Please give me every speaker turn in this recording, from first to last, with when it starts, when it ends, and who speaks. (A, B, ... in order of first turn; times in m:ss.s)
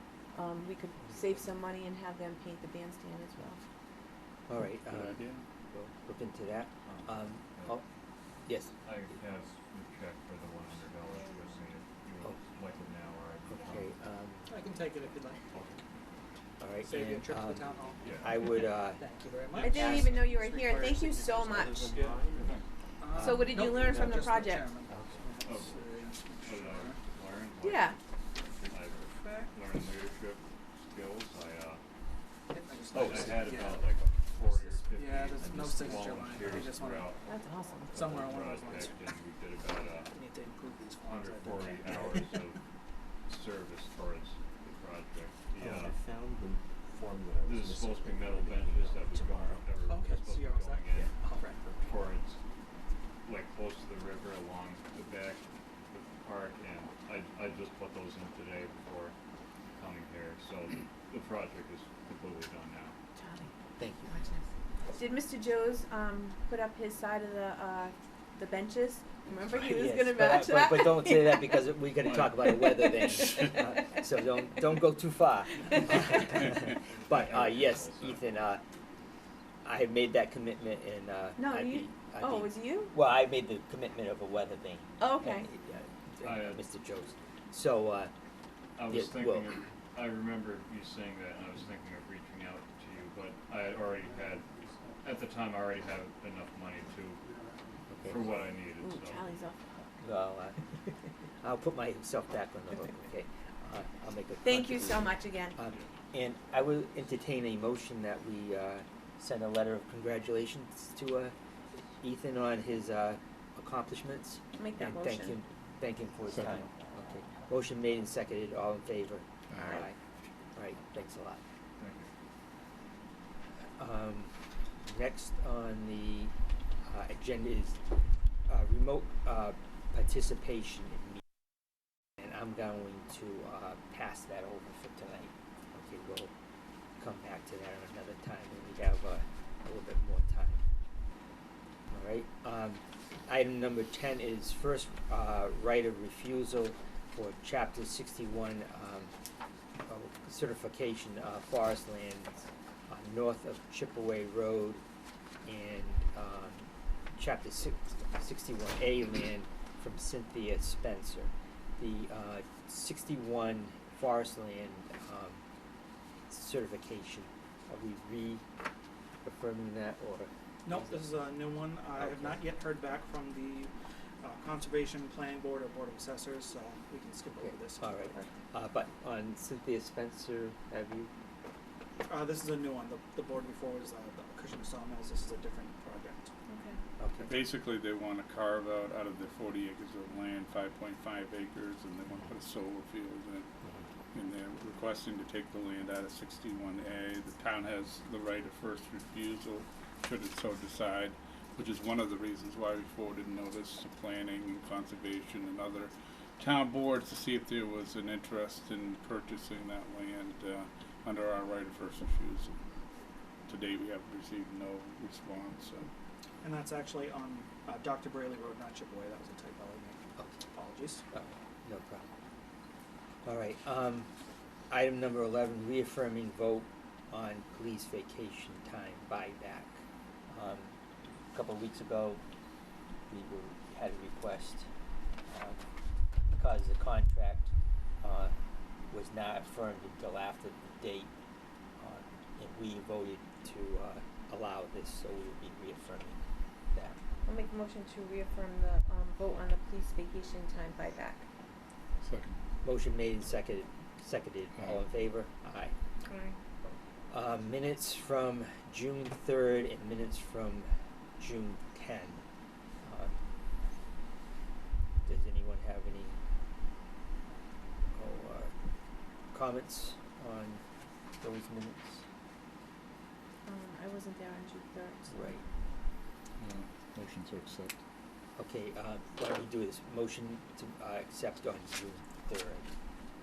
0:00.3-0:03.6 A
0:04.5-0:07.8 B
0:04.9-0:05.4 C
0:06.8-0:07.8 D
0:08.4-0:08.7 B
0:08.8-0:13.9 D
0:11.1-0:11.6 A
0:13.5-0:14.5 B
0:14.5-0:15.4 E
0:15.5-0:15.8 D
0:16.6-0:19.1 B
0:16.8-0:20.8 E
0:17.8-0:18.6 F
0:18.0-0:18.6 D
0:19.5-0:19.9 D
0:19.6-0:22.0 A
0:19.8-0:26.2 F
0:22.4-0:22.6 D
0:23.0-0:27.0 E
0:23.2-0:24.8 A
0:25.4-0:25.8 D
0:26.4-0:28.0 D
0:27.6-0:28.0 A
0:28.6-0:31.8 D
0:29.2-0:29.5 A
0:32.5-0:37.1 E
0:32.9-0:40.1 D
0:33.0-0:33.3 F
0:35.4-0:36.9 F
0:37.2-0:37.9 A
0:37.9-0:38.2 F
0:37.9-0:39.0 E
0:40.0-0:42.5 E
0:41.0-0:42.6 D
0:43.2-0:46.0 D
0:45.6-0:49.7 F
0:47.4-0:51.2 D
0:49.2-0:51.9 E
0:51.7-0:52.4 D
0:53.2-0:59.2 D
0:59.7-1:03.0 D
1:03.2-1:03.5 A
1:03.8-1:04.1 B
1:04.1-1:11.6 A
1:09.5-1:18.6 B
1:12.2-1:13.1 A
1:15.6-1:16.0 A
1:17.0-1:18.2 D
1:19.6-1:28.1 B
1:21.4-1:22.9 A
1:25.0-1:25.5 A
1:26.2-1:26.6 D
1:28.8-1:37.3 D
1:28.9-1:29.6 B
1:37.9-1:38.3 B
1:38.0-1:39.2 D
1:38.8-1:40.0 A
1:40.0-1:40.7 B
1:41.4-1:51.3 B
1:44.4-1:45.6 A
1:52.0-1:59.9 B
1:54.6-1:55.4 A
1:56.3-1:56.6 C
1:59.5-1:59.8 C
2:00.5-2:01.4 B
2:01.8-2:02.1 D
2:03.8-2:04.3 B
2:04.8-2:06.3 B
2:06.8-2:07.8 B
2:08.5-2:11.2 B
2:12.2-2:16.3 B
2:17.0-2:20.6 B
2:21.9-2:29.1 B
2:29.9-2:34.8 B
2:35.4-2:45.4 B
2:46.3-2:48.4 B
2:49.2-2:51.3 B
2:50.6-2:58.2 E
2:51.9-2:52.4 B
2:57.4-3:01.1 B
3:02.1-3:06.3 E
3:06.5-3:06.8 A
3:07.0-3:07.4 B
3:07.2-3:13.5 C
3:14.1-3:32.6 C
3:33.5-3:35.9 C
3:36.4-3:41.0 E
3:41.1-3:42.1 B
3:43.2-3:44.1 B
3:44.7-3:50.8 B
3:51.3-3:52.2 B
3:53.1-3:54.7 B
3:55.3-3:55.6 B
3:56.3-3:58.3 B
3:58.9-4:01.1 B
4:01.8-4:06.2 B
4:07.2-4:11.3 A
4:12.0-4:12.4 C
4:12.6-4:15.7 B
4:16.0-4:16.4 A
4:17.1-4:22.2 B
4:22.8-4:23.1 B
4:25.0-4:26.2 B
4:27.9-4:28.5 B
4:29.3-4:30.6 B
4:31.2-4:32.0 B
4:33.4-4:35.4 A
4:35.1-4:35.4 B
4:36.4-4:37.7 C
4:38.4-4:42.7 B